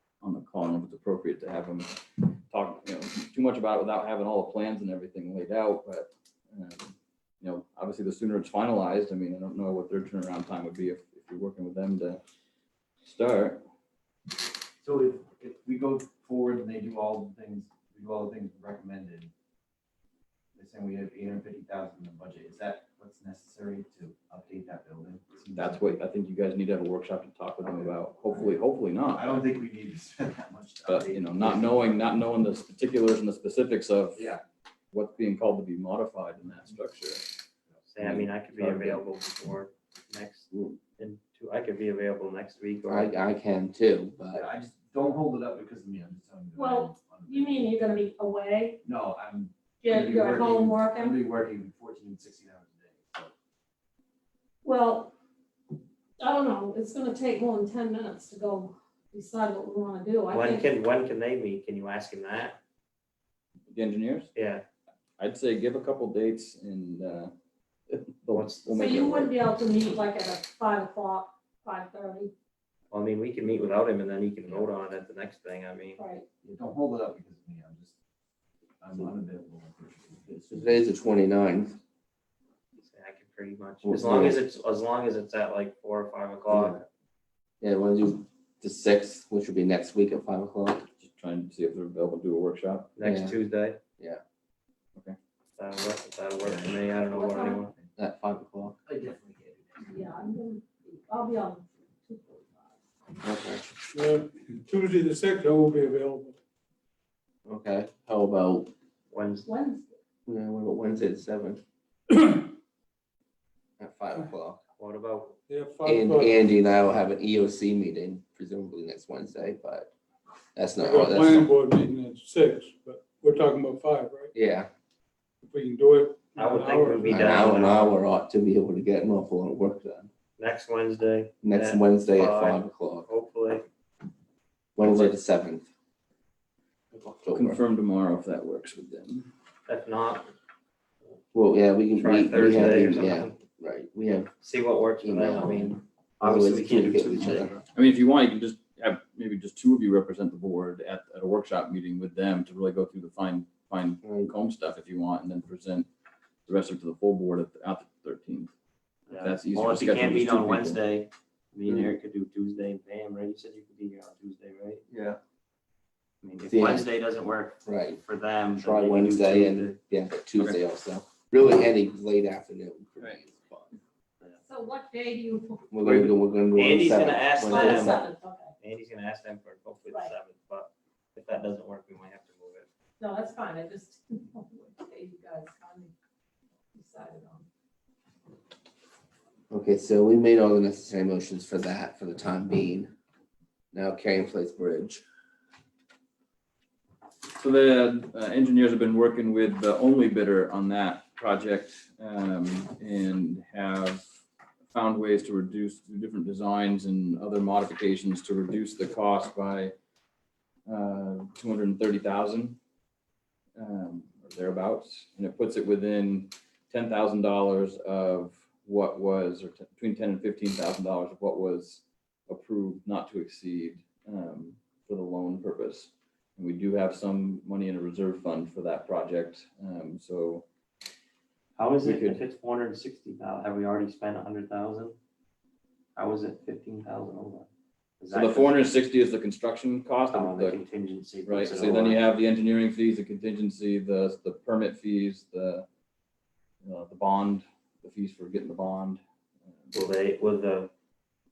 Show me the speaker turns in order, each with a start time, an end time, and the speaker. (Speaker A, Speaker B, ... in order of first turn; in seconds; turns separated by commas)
Speaker A: 0.2-1.9, Speaker A: 2.5-12.2, Speaker A: 13.0-13.6, Speaker B: 14.8-19.3, Speaker B: 20.6-25.8, Speaker A: 25.6-29.4, Speaker B: 29.1-32.0, Speaker A: 30.9-34.3, Speaker B: 34.1-34.4, Speaker A: 34.9-37.2, Speaker C: 37.8-43.1, Speaker A: 38.0-39.0, Speaker D: 40.5-40.8, Speaker D: 42.9-44.5, Speaker B: 44.3-47.8, Speaker E: 46.5-48.8, Speaker B: 48.8-53.3, Speaker E: 49.8-51.2, Speaker E: 54.6-55.1, Speaker E: 56.2-60.7, Speaker C: 60.3-62.6, Speaker A: 63.7-64.3, Speaker C: 64.3-64.6, Speaker A: 65.2-67.3, Speaker A: 67.9-69.3, Speaker C: 68.3-68.8, Speaker E: 68.7-72.3, Speaker C: 72.9-76.0, Speaker E: 76.0-76.2, Speaker B: 76.4-77.9, Speaker B: 78.8-80.8, Speaker D: 80.5-81.8, Speaker C: 82.8-86.8, Speaker D: 83.8-84.4, Speaker D: 86.5-86.8, Speaker D: 87.6-90.8, Speaker A: 91.0-92.9, Speaker C: 93.0-93.8, Speaker D: 93.0-93.4, Speaker C: 95.6-97.7, Speaker B: 96.4-97.0, Speaker E: 97.1-97.6, Speaker D: 98.0-98.8, Speaker B: 98.8-99.9, Speaker E: 99.8-102.8, Speaker D: 103.2-103.6, Speaker E: 103.9-106.3, Speaker F: 104.9-105.6, Speaker D: 107.5-108.7, Speaker C: 109.1-109.5, Speaker E: 109.4-110.0, Speaker D: 110.3-111.6, Speaker D: 113.8-114.6, Speaker C: 114.8-115.4, Speaker F: 115.5-116.3, Speaker E: 115.6-116.2, Speaker D: 115.8-119.9, Speaker D: 120.5-121.5, Speaker F: 120.8-122.2, Speaker E: 120.8-124.3, Speaker D: 124.3-124.7, Speaker E: 125.5-127.0, Speaker F: 125.8-127.1, Speaker C: 126.4-128.0, Speaker D: 127.1-130.1, Speaker C: 130.4-133.7, Speaker D: 131.4-133.1, Speaker D: 134.8-135.7, Speaker D: 137.0-137.6, Speaker A: 137.3-139.3, Speaker C: 139.7-140.3, Speaker D: 141.3-144.3, Speaker C: 141.9-143.4, Speaker C: 144.4-147.7, Speaker D: 145.0-147.5, Speaker A: 147.7-155.9, Speaker D: 154.0-154.3, Speaker A: 156.5-158.5, Speaker C: 159.1-164.8, Speaker A: 159.1-160.8, Speaker C: 166.2-169.8, Speaker D: 166.5-166.9, Speaker D: 167.7-168.0, Speaker D: 168.6-173.8, Speaker E: 174.4-175.7, Speaker D: 175.7-178.0, Speaker C: 175.8-178.0, Speaker E: 177.5-178.5, Speaker C: 178.6-182.7, Speaker E: 183.0-185.9, Speaker E: 186.7-187.4, Speaker D: 189.5-192.9, Speaker D: 193.7-195.0, Speaker A: 197.3-204.1, Speaker A: 204.7-209.7, Speaker A: 210.7-212.6, Speaker A: 213.6-230.4, Speaker C: 231.6-235.0, Speaker A: 231.8-232.2, Speaker C: 236.0-237.5, Speaker C: 238.0-238.7, Speaker A: 238.1-240.6, Speaker C: 240.1-242.1, Speaker A: 241.2-245.7, Speaker A: 246.6-249.8, Speaker C: 249.7-250.7